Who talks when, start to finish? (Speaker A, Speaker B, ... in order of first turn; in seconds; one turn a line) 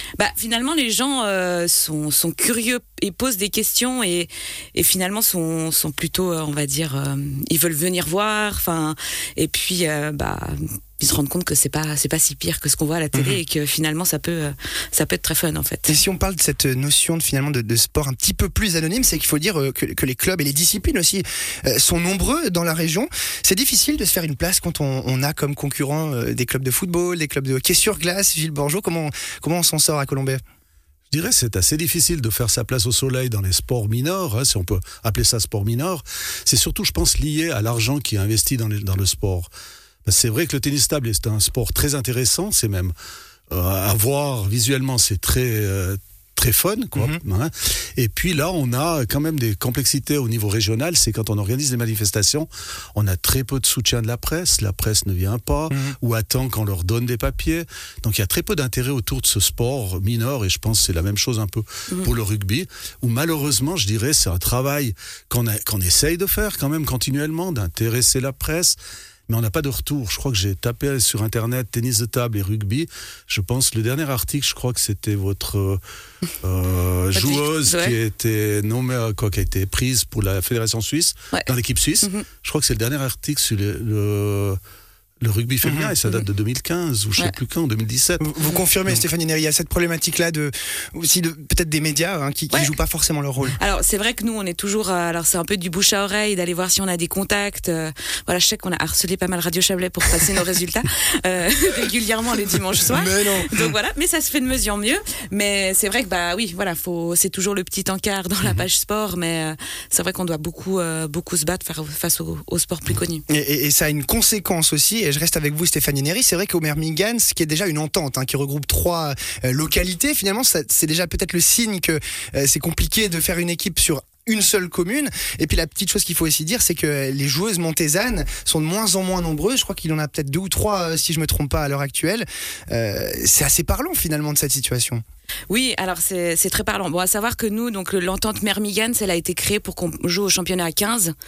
Speaker A: 0.2-15.9
Speaker B: 15.9-30.4
Speaker C: 31.1-39.5
Speaker C: 40.0-43.0
Speaker C: 43.5-68.8
Speaker C: 69.3-75.8
Speaker C: 76.4-84.6
Speaker A: 77.2-78.0
Speaker A: 81.3-82.3
Speaker C: 85.2-88.3
Speaker B: 85.6-85.9
Speaker B: 88.2-93.6
Speaker A: 93.6-113.2
Speaker B: 102.9-103.8
Speaker B: 113.3-135.0
Speaker A: 135.5-141.1